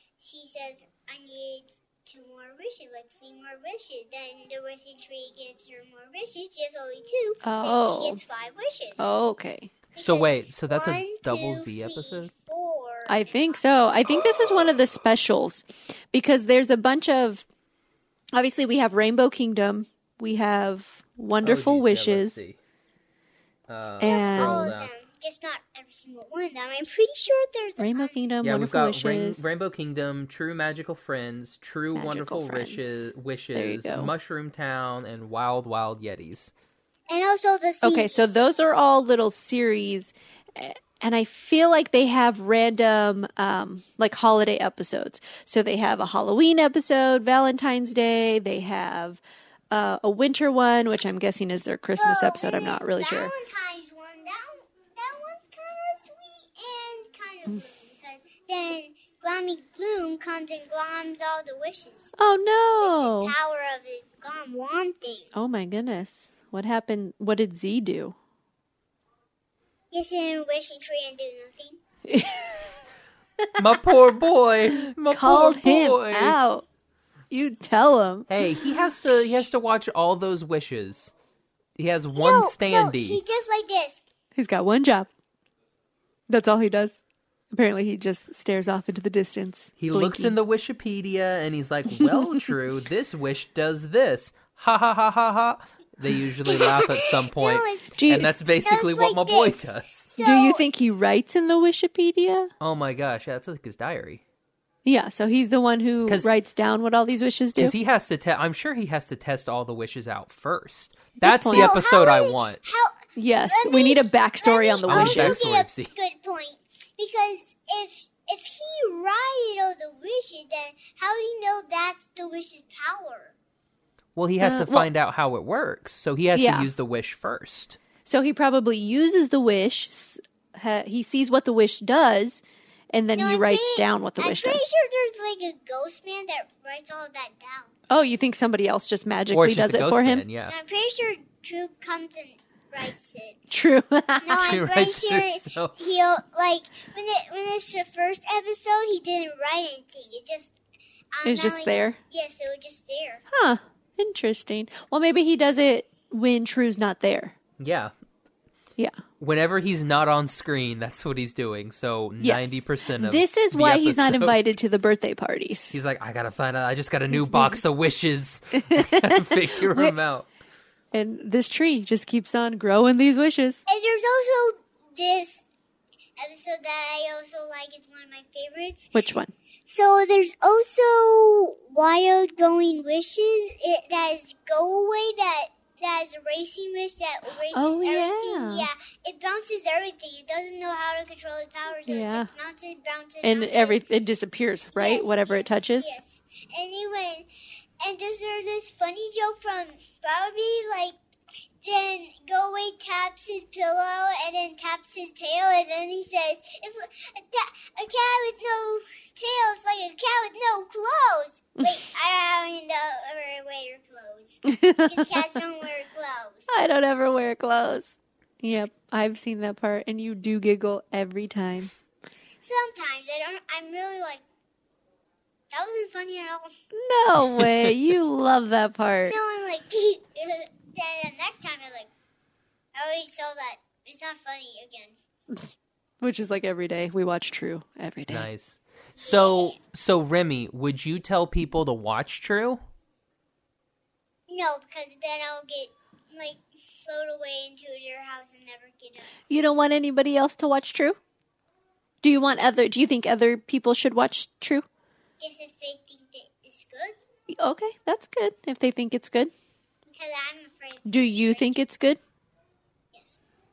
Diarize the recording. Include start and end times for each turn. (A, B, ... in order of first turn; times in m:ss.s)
0:00.2-0:09.1 A
0:07.4-0:08.2 B
0:09.0-0:09.7 B
0:10.0-0:13.6 A
0:10.0-0:12.3 C
0:13.1-0:17.4 B
0:18.3-0:22.4 B
0:21.4-0:22.6 C
0:23.7-0:24.9 C
0:24.0-0:24.7 B
0:24.0-0:28.2 A
0:27.8-0:29.5 B
0:28.4-0:36.5 C
0:32.0-0:34.1 B
0:37.1-0:38.6 A
0:37.8-0:49.2 B
0:49.7-0:53.3 B
0:52.0-1:02.1 A
1:02.2-1:03.3 B
1:02.8-1:05.3 A
1:05.3-1:08.2 B
1:09.9-1:11.8 A
1:12.1-1:12.8 B
1:13.6-1:16.4 C
1:14.9-1:16.7 B
1:17.3-1:18.4 B
1:18.3-1:21.1 C
1:21.8-1:23.2 C
1:22.1-1:24.0 A
1:24.4-1:25.1 B
1:26.3-1:27.0 B
1:27.5-1:30.4 B
1:29.8-1:40.1 C
1:32.0-1:32.4 B
1:36.4-1:38.0 A
1:38.0-1:38.3 B
1:38.6-1:40.6 A
1:40.2-1:42.5 B
1:42.6-1:44.2 C
1:44.8-1:47.7 B
1:46.1-1:46.4 C
1:47.6-1:52.6 C
1:51.2-1:51.8 B
1:51.5-1:53.0 A
1:53.2-1:55.4 B
1:53.5-2:03.3 A
1:54.9-1:55.9 C
2:04.2-2:07.8 C
2:04.4-2:04.9 B
2:06.3-2:06.7 B
2:08.1-2:12.4 B
2:12.9-2:14.7 B
2:13.2-2:17.7 A
2:17.9-2:20.2 B
2:19.3-2:20.5 C
2:20.5-2:23.4 A
2:23.5-2:24.6 B
2:24.2-2:30.5 A
2:24.3-2:25.8 C
2:31.1-2:33.2 A
2:31.2-2:32.0 B
2:33.3-2:37.4 B
2:37.6-2:37.9 C
2:39.2-2:44.4 C
2:42.2-2:45.8 B
2:45.7-2:50.3 C
2:47.1-2:47.6 B
2:48.6-2:49.9 B
2:50.9-2:53.6 B
2:53.7-2:55.4 A
2:56.2-2:59.1 A
2:58.9-2:59.3 B
2:59.7-3:13.8 A
3:07.5-3:08.7 B
3:11.9-3:12.3 B
3:13.2-3:16.0 B
3:14.8-3:17.3 A
3:17.8-3:21.0 A
3:21.6-3:36.5 A
3:34.5-3:35.2 B
3:36.5-3:41.7 B
3:42.4-3:44.2 A
3:45.5-3:46.5 A
3:46.7-3:49.2 B
3:47.4-3:47.7 C
3:49.1-3:51.9 A
3:52.8-3:55.0 A
3:56.0-3:58.3 B
3:58.1-4:02.6 C
3:59.0-3:59.6 A
4:04.3-4:09.1 A
4:09.3-4:11.0 B
4:12.0-4:14.7 B
4:15.2-4:17.0 A
4:17.3-4:19.3 B
4:19.9-4:21.5 A
4:20.9-4:22.0 B